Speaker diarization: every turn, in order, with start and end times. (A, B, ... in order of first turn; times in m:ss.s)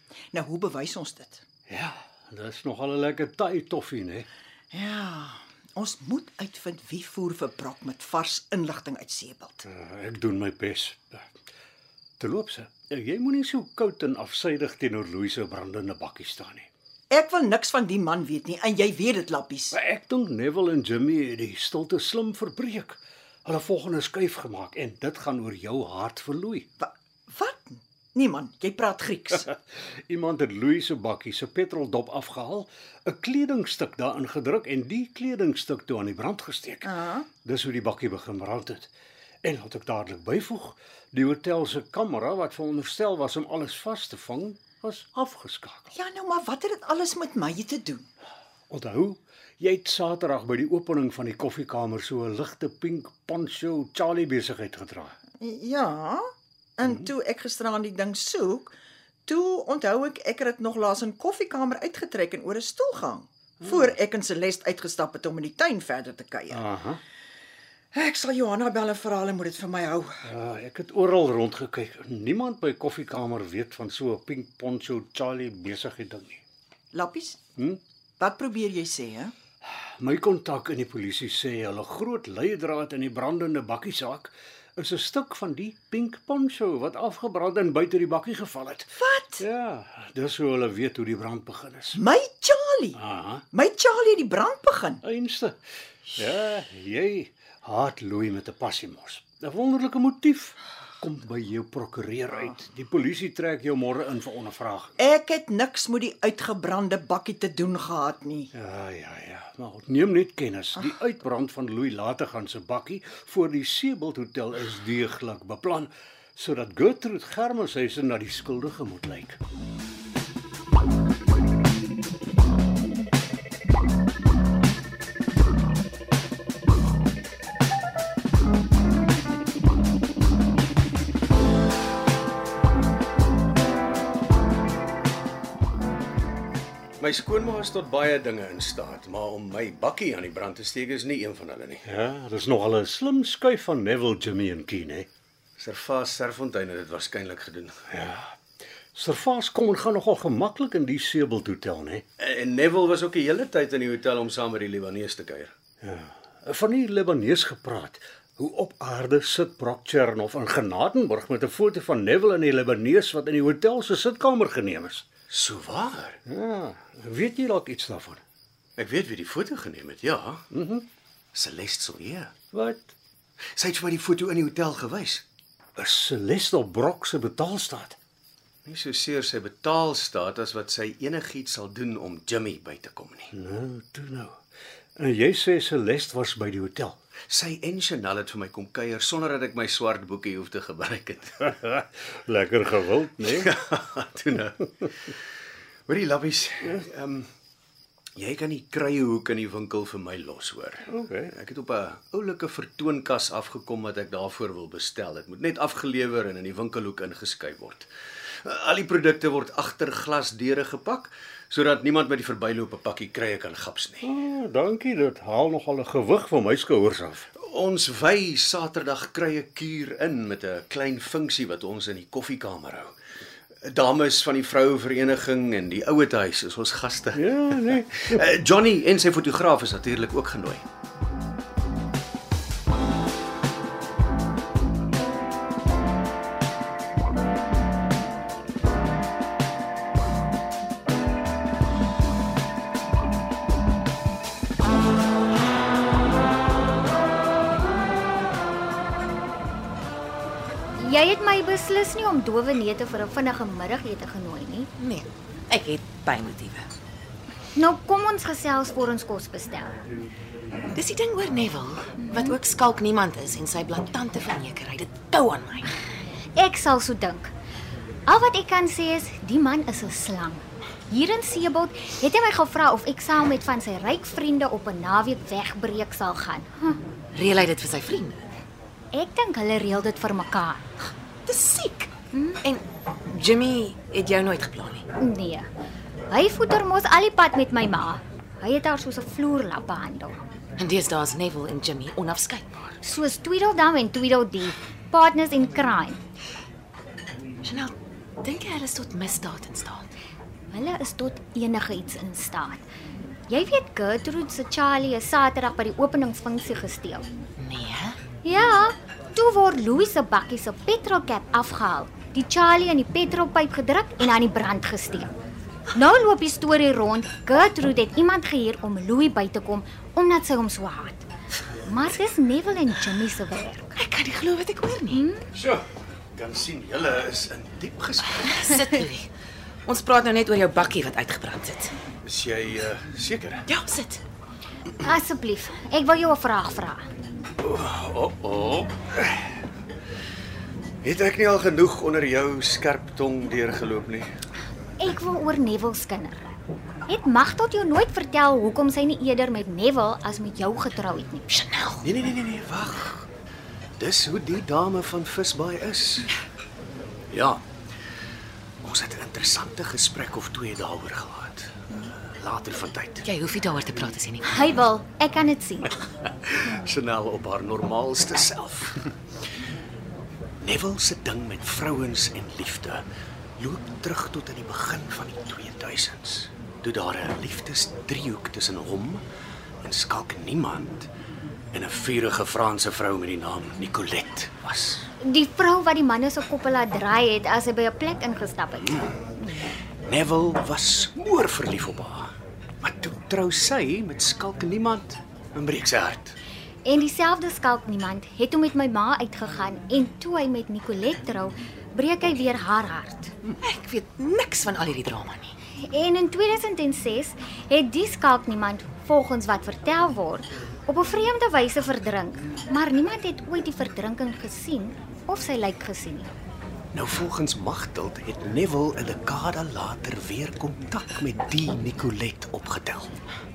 0:00.3-0:01.4 A
0:01.7-0:04.3 B
0:04.7-0:09.6 A
0:09.7-0:11.2 B
0:12.2-0:16.7 B
0:17.1-0:19.8 A
0:19.7-0:26.7 B
0:26.8-0:29.5 A
0:29.4-0:36.9 B
0:36.8-0:37.3 A
0:37.4-0:38.9 B
0:39.4-0:45.9 B
0:45.9-0:48.1 A
0:48.7-0:55.2 B
0:55.4-0:56.2 A
0:56.8-0:58.8 A
0:59.2-1:06.6 A
1:06.5-1:07.0 B
1:07.9-1:10.1 A
1:10.2-1:16.4 B
1:16.9-1:17.4 A
1:18.2-1:19.3 A
1:20.0-1:32.0 B
1:29.0-1:29.4 A
1:31.9-1:33.0 A
1:32.9-1:33.4 B
1:33.5-1:35.0 A
1:35.0-1:35.6 B
1:36.1-1:44.9 B
1:45.0-1:48.5 A
1:48.5-1:59.4 B
2:17.0-2:21.8 C
2:21.9-2:25.1 B
2:25.6-2:27.8 C
2:27.9-2:28.3 B
2:28.9-2:32.0 B
2:32.2-2:35.5 C
2:35.8-2:45.1 B
2:45.3-2:46.2 C
2:46.2-2:48.2 B
2:48.8-2:50.4 C
2:50.5-2:50.9 B
2:51.3-2:52.3 C
2:52.5-2:52.9 B
2:53.6-2:55.2 C
2:55.8-2:58.0 B
2:58.7-3:03.3 C
3:03.3-3:04.4 B
3:05.0-3:07.0 B
3:07.3-3:11.5 C
3:11.4-3:13.6 B
3:13.3-3:14.7 C
3:15.9-3:17.3 C
3:18.2-3:27.9 C
3:20.9-3:21.3 B
3:28.4-3:34.1 C
3:34.0-3:37.3 B
3:37.4-3:42.9 C
3:43.6-3:50.6 C
3:47.1-3:48.2 B
4:10.8-4:14.7 D
4:14.8-4:16.7 E
4:17.6-4:19.8 D
4:20.7-4:25.7 E
4:22.0-4:22.4 D
4:26.4-4:27.3 D
4:28.1-4:36.8 D
4:37.1-4:38.3 E
4:38.9-4:40.7 D
4:41.3-4:41.9 E
4:42.1-4:42.4 D
4:42.4-4:44.8 E
4:45.0-4:45.5 D
4:46.1-4:50.2 D
4:50.6-4:52.7 E
4:52.8-4:56.0 D
4:57.4-4:59.9 E
5:00.5-5:02.6 D
5:03.3-5:07.1 D
5:07.4-5:08.0 E
5:08.2-5:15.1 D
5:15.7-5:21.1 D
5:21.6-5:23.7 D
5:23.8-5:25.0 E
5:24.9-5:25.3 D
5:25.3-5:28.6 C
5:28.2-5:29.1 E
5:29.7-5:31.7 E
5:32.0-5:33.4 C
5:33.5-5:34.0 E
5:34.8-5:36.8 D
5:37.4-5:39.3 C
5:40.8-5:44.1 C
5:44.8-5:46.3 D
5:46.9-5:51.4 D
5:51.5-5:51.8 E
5:51.8-5:53.1 C
5:53.8-5:56.1 C
5:57.1-5:57.4 C
5:58.6-6:03.1 C
6:03.0-6:04.4 E
6:04.2-6:05.8 D
6:06.3-6:08.9 C
6:10.4-6:12.8 C
6:13.4-6:19.0 C
6:19.6-6:20.9 C
6:21.5-6:24.9 C
6:25.0-6:28.9 D
6:28.6-6:28.9 C
6:29.8-6:36.2 C
6:36.6-6:43.1 D
6:43.4-6:45.3 E
6:45.6-6:56.1 D
6:56.7-7:03.0 C